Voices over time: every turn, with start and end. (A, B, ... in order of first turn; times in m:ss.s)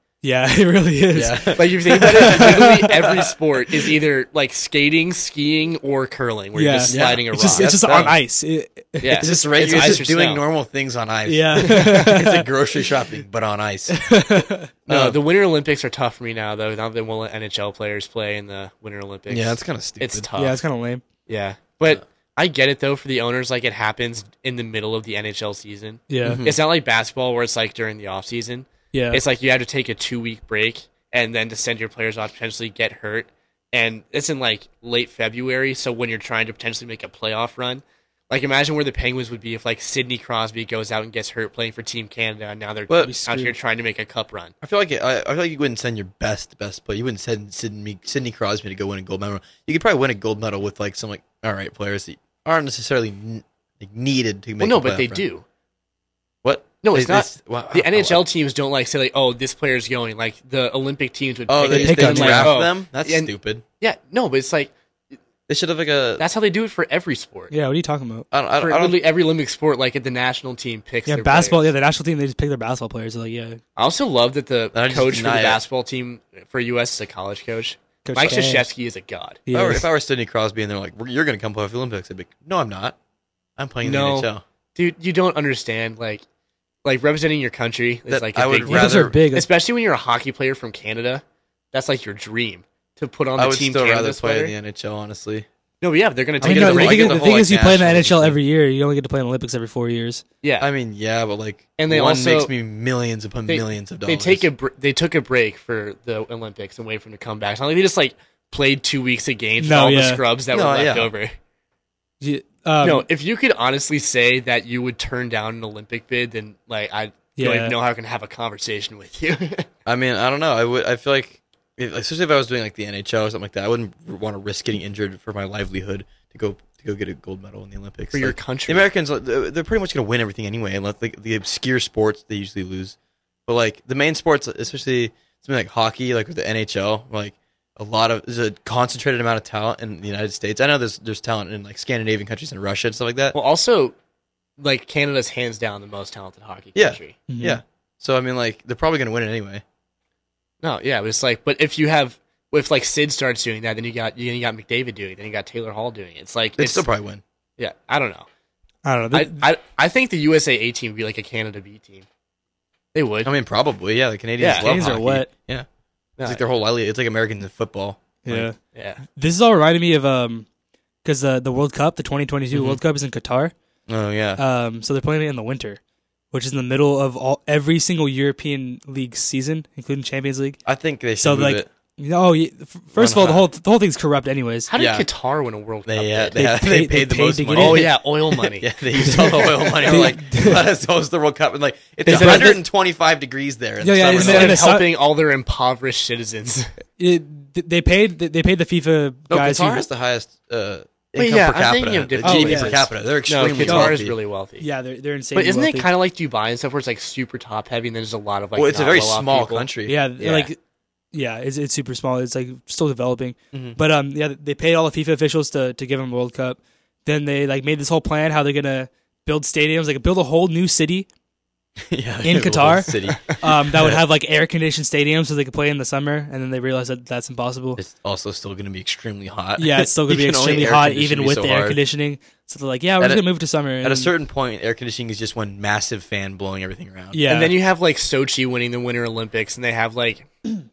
0:00.2-0:02.8 A
0:01.1-0:03.9 B
0:01.5-0:08.1 C
0:06.5-0:09.8 A
0:06.9-0:08.2 B
0:09.0-0:10.4 C
0:09.2-0:14.2 B
0:11.3-0:12.5 A
0:13.9-0:14.7 A
0:14.9-0:15.2 B
0:14.9-0:20.6 C
0:19.3-0:20.3 B
0:20.4-0:21.0 A
0:21.3-0:44.5 C
0:26.1-0:26.4 A
0:26.2-0:26.6 B
0:28.9-0:29.2 A
0:42.9-0:43.1 B
0:43.0-0:43.5 A
0:44.6-0:55.2 B
0:54.6-0:55.4 C
0:56.4-0:58.2 B
0:56.8-1:04.7 C
1:01.5-1:03.6 B
1:01.6-1:02.5 A
1:05.5-1:06.2 B
1:06.2-1:07.5 C
1:07.5-1:08.2 A
1:08.3-1:09.0 B
1:08.6-1:11.7 C
1:11.1-1:13.6 A
1:13.8-1:19.4 C
1:14.7-1:15.6 B
1:18.0-1:18.7 A
1:19.5-1:19.8 A
1:19.5-1:23.0 B
1:23.6-1:24.4 B
1:23.8-1:26.2 C
1:26.8-1:34.5 C
1:28.1-1:29.2 B
1:28.6-1:29.5 A
1:33.4-1:35.5 B
1:35.8-1:37.2 C
1:36.4-1:38.4 B
1:36.4-1:40.2 A
1:40.4-1:40.7 C
1:40.6-1:44.4 B
1:41.8-1:42.5 C
1:43.5-1:51.3 C
1:49.6-1:50.2 A
1:50.5-1:51.1 B
1:52.2-1:53.0 A
1:52.8-1:59.7 C
1:57.4-1:57.7 A
1:59.8-2:23.3 B
2:08.1-2:08.9 C
2:23.3-2:23.9 C
2:24.6-2:27.2 C
2:26.7-2:29.6 B
2:27.3-2:27.6 A
2:30.6-2:36.8 C
2:36.6-2:37.2 B
2:37.6-2:38.3 C
2:38.8-2:39.5 A
2:39.1-2:42.0 C
2:42.9-2:43.3 C
2:43.2-2:45.6 B
2:44.4-2:44.7 C
2:44.5-2:45.3 A
2:46.2-2:46.4 C
2:46.2-2:48.5 B
2:48.2-2:48.6 A
2:48.7-2:49.0 C
2:49.1-2:50.4 A
2:51.0-2:53.5 A
2:52.5-2:52.8 B
2:53.9-2:54.4 B
2:54.4-2:55.8 A
2:56.3-3:00.6 A
3:00.6-3:01.7 B
3:01.2-3:04.7 A
3:03.0-3:03.5 B
3:04.7-3:06.4 C
3:04.8-3:05.1 B
3:05.8-3:14.7 B
3:06.4-3:07.9 A
3:07.5-3:10.0 C
3:09.8-3:10.6 A
3:12.0-3:12.6 C
3:12.0-3:12.6 A
3:13.8-3:14.9 A
3:14.1-3:16.7 C
3:17.0-3:19.8 A
3:19.3-3:24.1 B
3:21.2-3:24.7 C
3:22.2-3:22.8 A
3:23.6-3:24.0 A
3:24.6-3:25.9 A
3:25.3-3:30.5 C
3:28.6-3:30.0 B
3:29.9-3:30.6 A
3:31.1-3:41.1 A
3:33.5-3:33.8 B
3:41.9-3:44.0 B
3:42.2-3:47.8 A
3:47.8-3:51.8 B
3:49.6-3:54.1 A
3:53.0-3:53.2 B
3:53.8-3:57.2 B
3:57.1-3:57.5 A
3:57.3-4:00.3 C